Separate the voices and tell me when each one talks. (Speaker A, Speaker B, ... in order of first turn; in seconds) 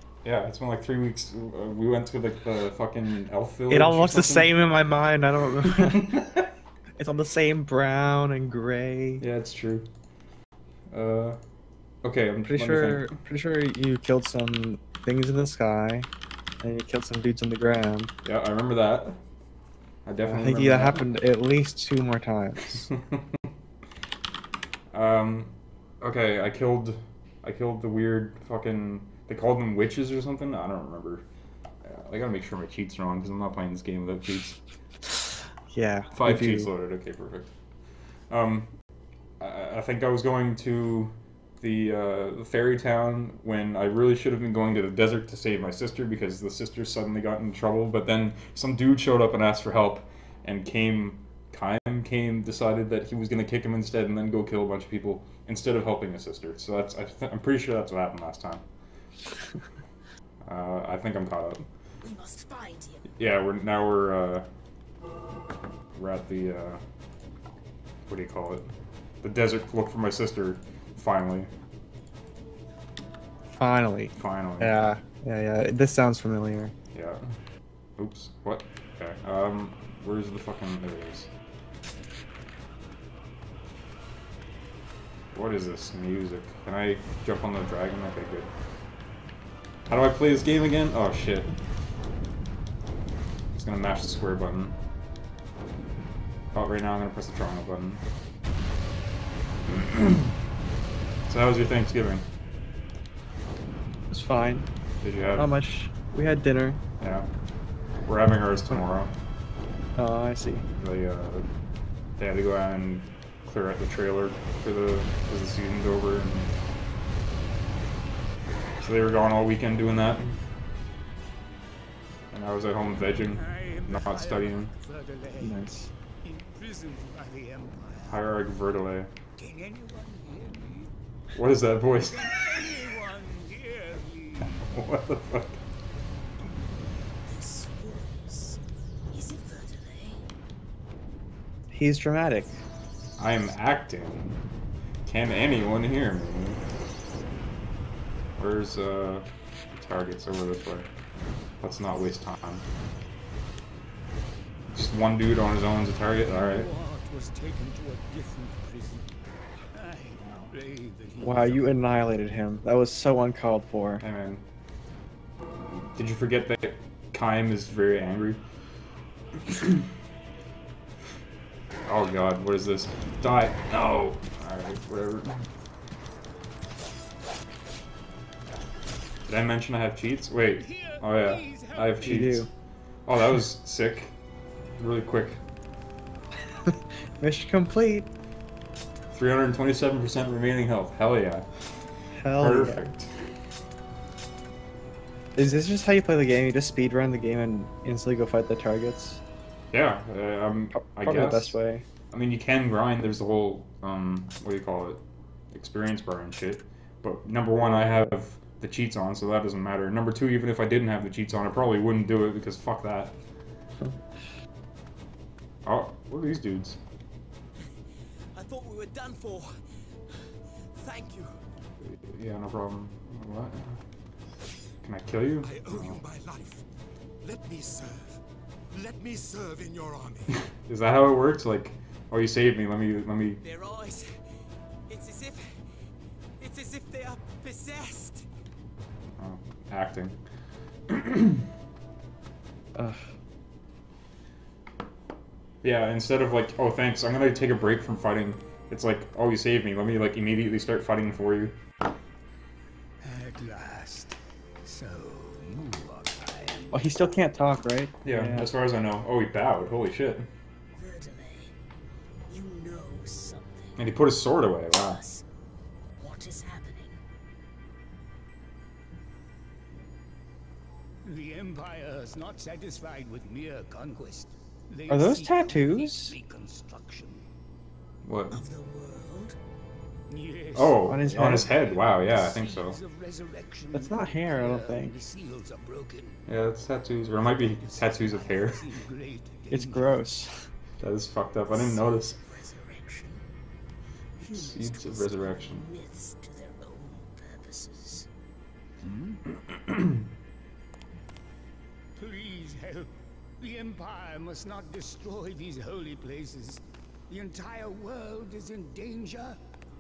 Speaker A: 0.2-4.5, 5.7-6.5, 9.2-9.9, 10.9-11.4, 12.0-13.2, 18.2-19.2, 20.1-21.0, 22.9-23.3, 24.9-31.3, 31.8-34.6, 36.1-37.5, 38.3-38.7, 39.4-58.6, 60.4-61.7, 63.1-64.5, 65.9-66.8, 68.1-68.7, 69.2-71.5, 74.2-74.9, 76.9-77.3, 78.0-81.3, 85.3-88.5, 89.9-91.5, 93.5-94.8, 96.5-98.0, 99.7-100.4, 101.3-102.3, 105.0-105.5, 107.0-107.3, 108.1-109.1, 110.8-111.5, 112.2-116.5, 118.8-120.4, 122.3-124.7, 128.1-129.1, 131.3-132.5, 134.6-135.6, 143.2-144.4, 145.1-146.6, 148.4-150.9, 151.6-152.7, 154.7-156.7, 160.2-160.5, 164.0-164.4, 165.7-168.4, 169.4-169.9, 171.9-175.5, 179.3-182.5, 183.1-184.2, 184.8-185.4, 189.1-193.3, 199.7-201.6, 202.1-213.2, 215.7-216.8, 221.8-223.8, 224.8-226.0, 230.7-233.4, 239.2-240.2, 240.9-241.4, 245.6-251.6, 258.0-260.3, 263.8-265.0, 278.1-278.4, 280.6-282.8, 286.3-288.6, 290.8-292.2, 294.2-295.7
Speaker B: 3.7-6.2, 7.0-9.2, 12.5-16.1, 16.6-18.1, 20.2-22.9, 35.2-36.7, 73.6-76.8, 104.1-104.7, 105.3-106.8, 110.0-110.7, 125.4-125.9, 141.7-142.6, 161.2-164.0, 182.0-182.5, 186.6-188.1, 192.1-192.8, 195.4-199.2, 200.8-201.8, 207.6-208.1, 242.8-243.1, 256.7-258.5, 274.9-276.1, 280.9-281.5, 283.7-285.0, 289.5-290.5
Speaker C: 62.0-63.1, 137.2-140.2, 260.8-261.6, 262.3-264.0, 264.7-265.2, 266.0-267.0, 278.3-279.4, 291.5-293.2, 294.2-298.1
Speaker D: 123.3-125.6, 126.2-128.3, 129.4-130.9, 132.1-134.7, 156.3-159.1, 159.7-161.8, 180.6-182.2, 253.0-256.9, 271.0-277.2, 280.1-286.2, 287.2-289.9, 298.8-299.2, 302.0-309.4
Speaker E: 218.3-219.6, 220.8-221.3, 233.4-234.2, 234.9-235.6, 236.4-238.3
Speaker F: 225.4-226.7, 227.2-230.4